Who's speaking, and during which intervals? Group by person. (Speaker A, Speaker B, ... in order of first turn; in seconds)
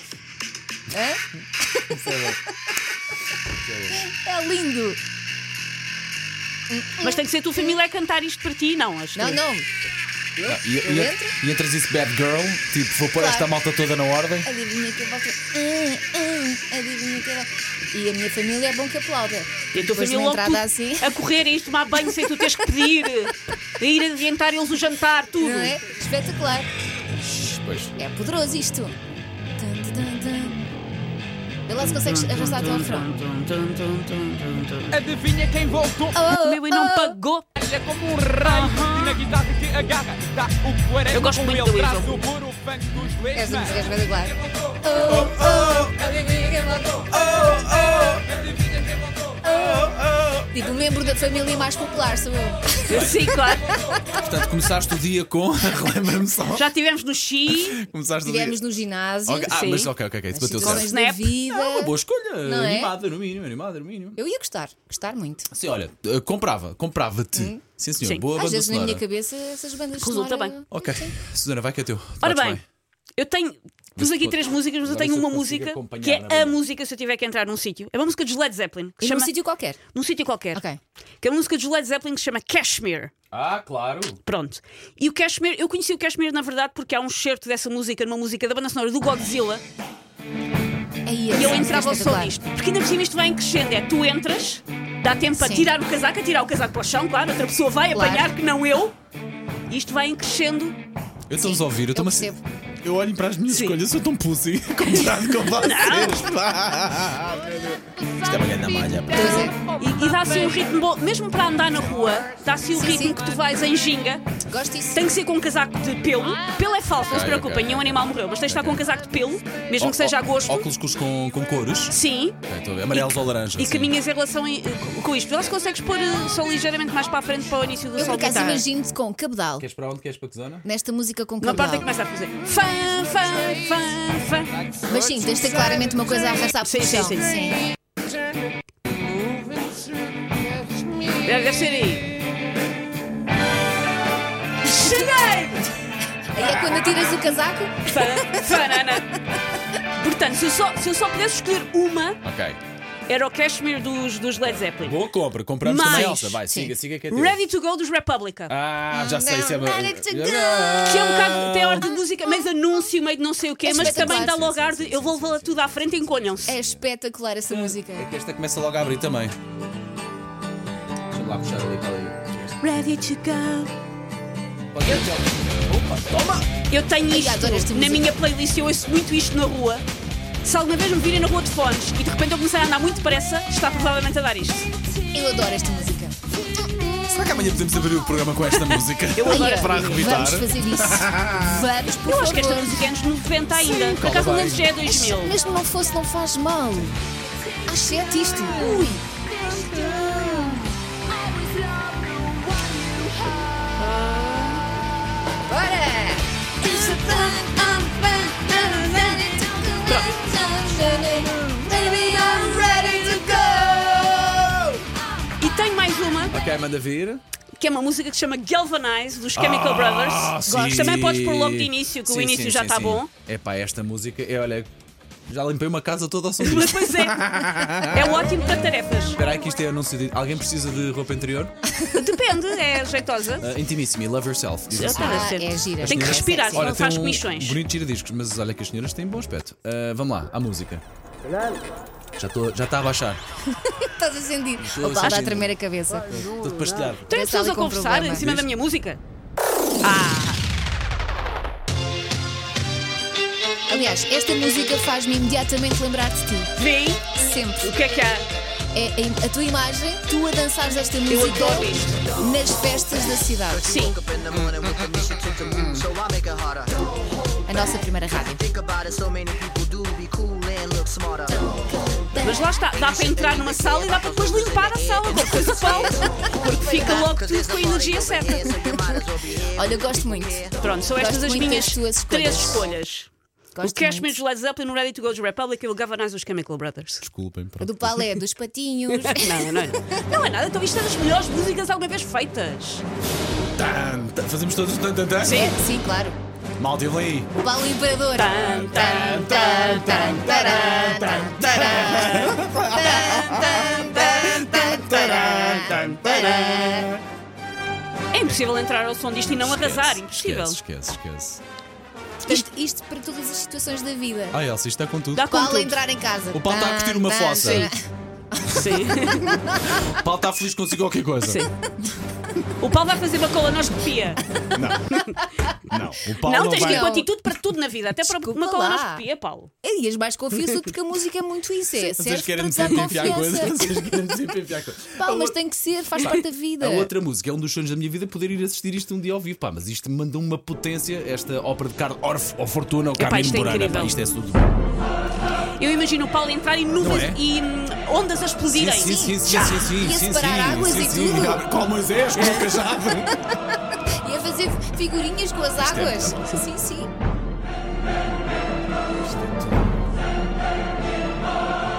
Speaker A: 0.9-2.4, 3.9-5.0, 6.7-7.8, 9.2-9.7, 10.4-11.3, 13.2-13.5, 14.4-21.1, 25.4-26.7, 28.0-29.0, 29.6-30.7, 31.7-33.1, 36.1-37.1, 43.3-47.7, 49.4-53.2, 58.2-59.6, 60.3-63.0, 64.2-65.5, 67.4-67.6, 68.3-71.2, 79.0-79.8, 91.0-92.4, 95.3-95.7, 97.9-98.3, 101.4-102.4, 109.1-109.6, 112.7-113.2, 114.5-115.1, 128.0-129.7, 130.6-131.9, 134.9-137.7, 144.7-145.7, 146.3-148.6, 155.8-156.7, 158.9-161.1, 163.6-164.5, 166.5-168.1, 177.1-178.1, 185.1-186.9, 189.2-193.0, 194.9-196.9, 197.7-200.6, 201.3-201.8, 202.5-203.3, 205.5-214.8, 234.9-236.8, 243.5-246.2, 247.1-248.3, 253.7-256.5, 257.1-257.8, 258.7-263.7, 267.5-268.4, 276.6-277.1, 278.4-279.0, 279.5-282.7, 283.6-284.2, 287.6-290.1, 295.2-296.2, 297.4-306.9, 312.2-314.4, 315.2-317.8, 318.3-320.0, 324.4-325.1, 326.5-327.1, 328.0-329.0, 329.6-333.8, 335.0-336.9, 348.8-351.4, 352.7-356.9
Speaker B: 1.9-2.4, 3.6-4.0, 10.4-14.5, 27.1-27.9, 45.2-45.8, 47.1-48.2, 49.9-50.4, 52.9-53.2, 54.1-56.7, 57.5-58.6, 59.3-60.9, 61.5-64.2, 65.5-69.0, 70.7-72.6, 74.0-76.6, 83.3-84.2, 101.3-109.5, 117.0-118.8, 119.8-123.9, 129.6-130.7, 146.5-147.0, 152.2-152.6, 154.4-157.4, 158.5-161.9, 163.7-166.7, 167.5-169.4, 171.1-172.6, 174.7-176.5, 187.0-191.6, 193.6-194.7, 216.3-217.2, 219.3-224.7, 225.3-228.3, 229.1-231.5, 233.4-240.8, 242.2-243.2, 244.6-245.5, 246.1-247.1, 248.2-248.5, 287.0-288.1, 293.5-295.4, 296.6-297.3, 298.4-303.8, 304.6-307.0, 309.2-311.4, 314.3-315.3, 316.3-317.7, 319.9-321.4, 324.5-325.0, 325.7-327.0, 331.8-335.4, 335.9-344.5, 346.8-347.2, 348.5-353.2, 355.6-356.5, 358.9-359.7
Speaker C: 7.0-9.4, 19.7-25.8, 31.8-35.0, 36.3-37.7, 38.3-39.3, 41.1-42.3, 52.9-53.8, 56.5-57.8, 59.4-59.9, 60.6-61.4, 70.0-70.6, 72.2-72.6, 73.2-79.3, 79.9-80.7, 81.2-83.1, 84.2-89.6, 91.3-99.0, 99.7-100.8, 103.5-103.8, 105.0-106.3, 109.1-114.2, 114.9-120.7, 121.9-122.4, 122.9-128.7, 131.4-134.5, 136.6-137.4, 141.2-142.1, 144.7-145.7, 147.9-149.2, 149.9-152.2, 153.1-155.0, 155.6-156.4, 157.1-158.5, 160.8-166.6, 172.6-173.7, 174.8-175.1, 176.7-179.8, 180.4-184.7, 188.8-190.3, 192.0-195.4, 198.3-200.6, 203.8-204.5, 206.7-207.4, 209.8-210.2, 215.4-216.3, 217.6-223.1, 226.4-229.2, 231.9-233.5, 234.7-237.6, 245.0-245.3, 247.1-249.0, 249.8-250.4, 256.6-257.0, 257.6-258.3, 261.1-262.0, 263.6-264.0, 272.2-278.5, 280.6-283.1, 283.6-287.1, 288.9-292.8, 295.2-295.6, 298.1-300.9, 303.2-306.7, 308.1-310.6, 315.1-315.8, 317.4-317.7, 318.5-319.4, 321.2-321.5, 322.6-324.2, 326.2-329.5, 343.0-343.9, 345.6-349.6, 352.1-352.5
Speaker D: 34.9-36.2, 37.6-43.8
Speaker E: 263.7-266.8, 268.2-271.4, 272.6-276.0, 276.9-280.5